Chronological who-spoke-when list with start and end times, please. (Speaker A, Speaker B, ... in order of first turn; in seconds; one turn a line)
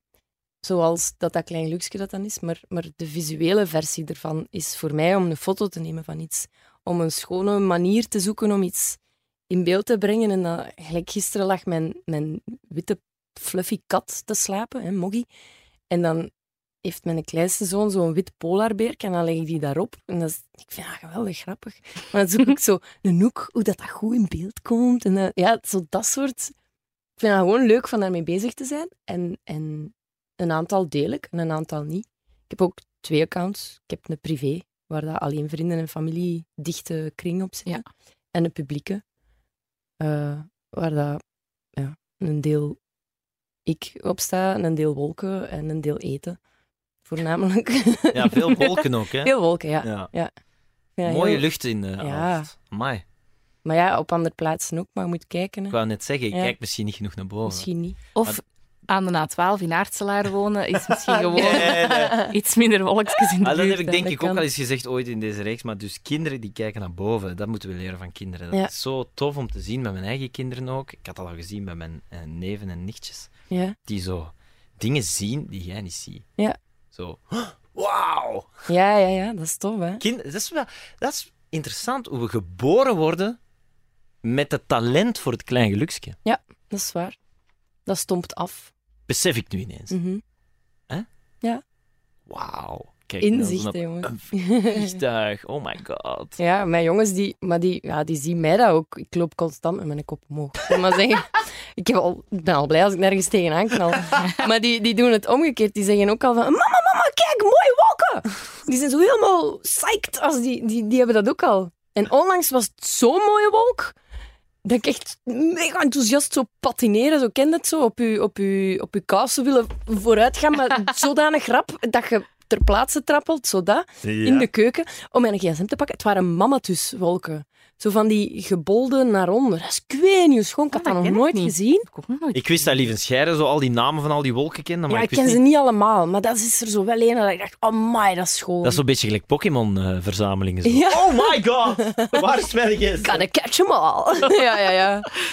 Speaker A: 0.6-15.3
Speaker A: 15.9-16.3
Speaker A: 16.8-26.5
Speaker A: 27.2-39.0
Speaker A: 40.0-41.2
Speaker A: 41.8-42.8
Speaker A: 43.6-46.4
Speaker A: 47.0-50.3
Speaker B: 48.1-50.1
Speaker A: 51.0-52.5
Speaker B: 51.0-53.0
Speaker A: 53.6-55.8
Speaker B: 55.7-57.7
Speaker A: 56.3-56.5
Speaker A: 57.5-58.0
Speaker C: 58.1-64.1
Speaker B: 61.3-62.3
Speaker A: 61.3-62.3
Speaker B: 63.4-73.3
Speaker A: 64.0-64.4
Speaker A: 73.5-73.8
Speaker B: 73.8-76.2
Speaker B: 76.9-78.5
Speaker A: 78.7-80.0
Speaker B: 80.0-83.4
Speaker B: 84.2-86.2
Speaker A: 86.2-87.2
Speaker A: 87.8-88.7
Speaker B: 89.1-90.0
Speaker A: 89.9-90.2
Speaker B: 92.3-96.4
Speaker A: 93.2-95.0
Speaker A: 96.4-114.0
Speaker A: 114.6-131.8
Speaker B: 124.0-124.5
Speaker C: 130.7-132.9
Speaker B: 132.3-135.4
Speaker A: 134.9-138.8
Speaker B: 138.6-143.2
Speaker A: 140.6-142.2
Speaker A: 143.0-145.1